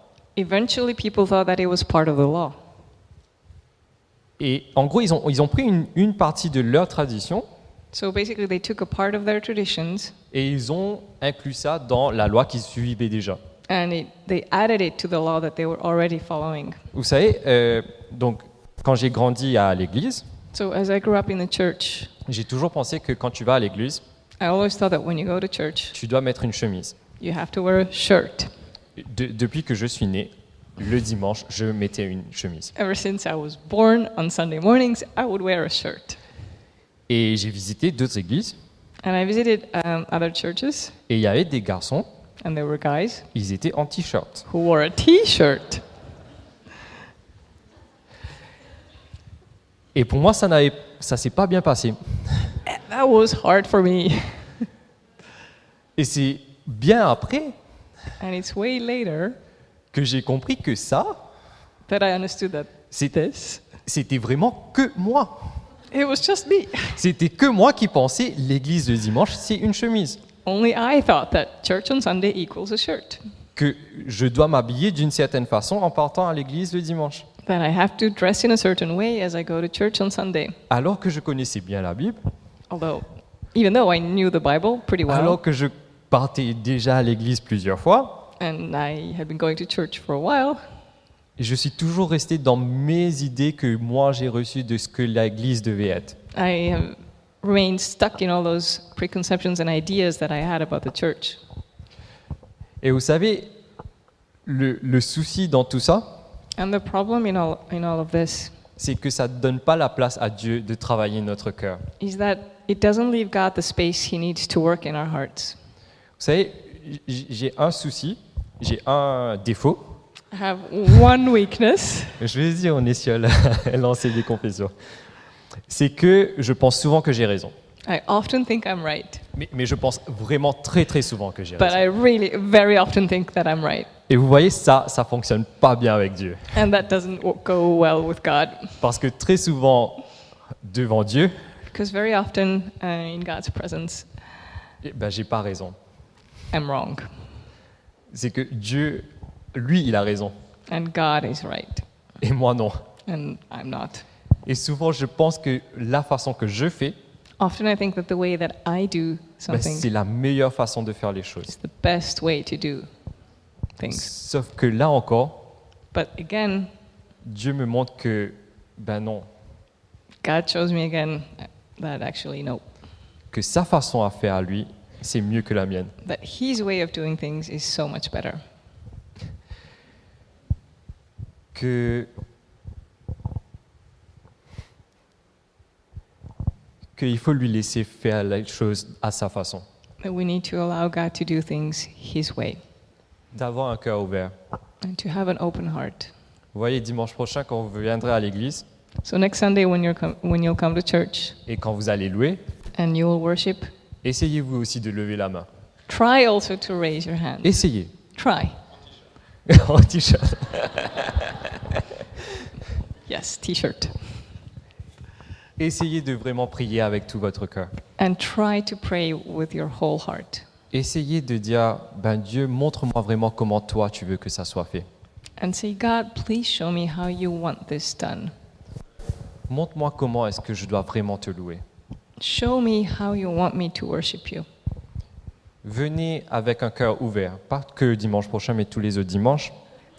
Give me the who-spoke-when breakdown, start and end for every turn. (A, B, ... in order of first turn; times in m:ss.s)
0:00.4-0:02.6 A
0:04.4-0:07.4 B
0:07.9-0:10.1 A
0:10.3-0:13.4 B
0:13.7-0:16.8 A
0:16.9-0:20.2 B
0:20.5-0:22.1 A
0:22.2-0:24.0 B
0:24.4-0:25.9 A
0:25.9-0:27.0 B
0:27.2-0:28.5 A
0:29.0-0:32.7 B
0:32.7-0:36.2 A
0:37.1-0:38.6 B
0:39.0-0:40.9 A
0:41.1-0:42.1 B
0:42.4-0:43.3 A
0:43.3-0:44.5 B
0:44.5-0:45.8 A
0:49.9-0:52.5 B
0:52.6-0:54.7 A
0:56.0-0:57.6 B
0:58.2-0:59.4 A
0:59.9-1:01.2 B
1:01.9-1:03.6 A
1:03.8-1:05.6 B
1:05.9-1:07.0 A
1:06.9-1:10.2 B
1:10.4-1:13.2 A
1:13.6-1:17.3 B
1:17.4-1:20.6 A
1:20.7-1:22.2 B
1:22.7-1:25.4 A
1:25.1-1:28.3 B
1:28.4-1:30.6 A
1:31.4-1:36.2 B
1:36.3-1:41.4 A
1:42.8-1:43.5 B
1:44.4-1:46.2 B
1:46.6-1:48.5 A
1:48.8-1:51.9 B
1:52.0-1:55.6 A
1:56.2-1:59.9 B
2:00.3-2:02.2 A
2:02.2-2:04.7 B
2:05.7-2:07.5 B
2:07.8-2:09.2 A
2:09.3-2:11.8 B
2:11.6-2:13.9 A
2:14.1-2:16.5 B
2:16.5-2:18.8 A
2:18.8-2:20.0 B
2:20.6-2:21.3 B
2:21.7-2:24.1 A
2:24.8-2:25.8 B
2:26.5-2:27.1 A
2:28.1-2:30.3 B
2:30.7-2:31.8 A
2:32.2-2:32.8 B
2:33.0-2:34.0 A
2:34.4-2:37.0 B
2:37.4-2:39.9 A
2:39.5-2:41.5 B
2:41.5-2:42.9 A
2:43.8-2:44.1 A
2:43.8-2:45.4 B
2:45.9-2:46.7 A
2:47.2-2:49.3 B
2:50.2-2:52.6 A
2:53.3-2:55.9 B
2:56.0-2:58.4 A
3:01.5-3:02.1 B
3:07.0-3:09.6 B
3:10.0-3:12.6 A
3:13.3-3:14.3 B
3:14.8-3:16.1 A
3:16.5-3:18.6 B
3:19.0-3:21.4 A
3:21.4-3:22.4 B
3:22.7-3:23.7 A
3:24.0-3:25.5 B
3:25.9-3:27.5 A
3:27.4-3:27.9 B
3:28.1-3:28.6 A
3:29.5-3:31.8 B
3:33.1-3:34.2 A
3:35.6-3:37.7 B
3:38.0-3:40.4 A
3:40.7-3:44.9 B
3:45.4-3:48.3 A
3:49.5-3:51.6 B
3:52.2-3:54.4 A
3:55.6-3:59.5 B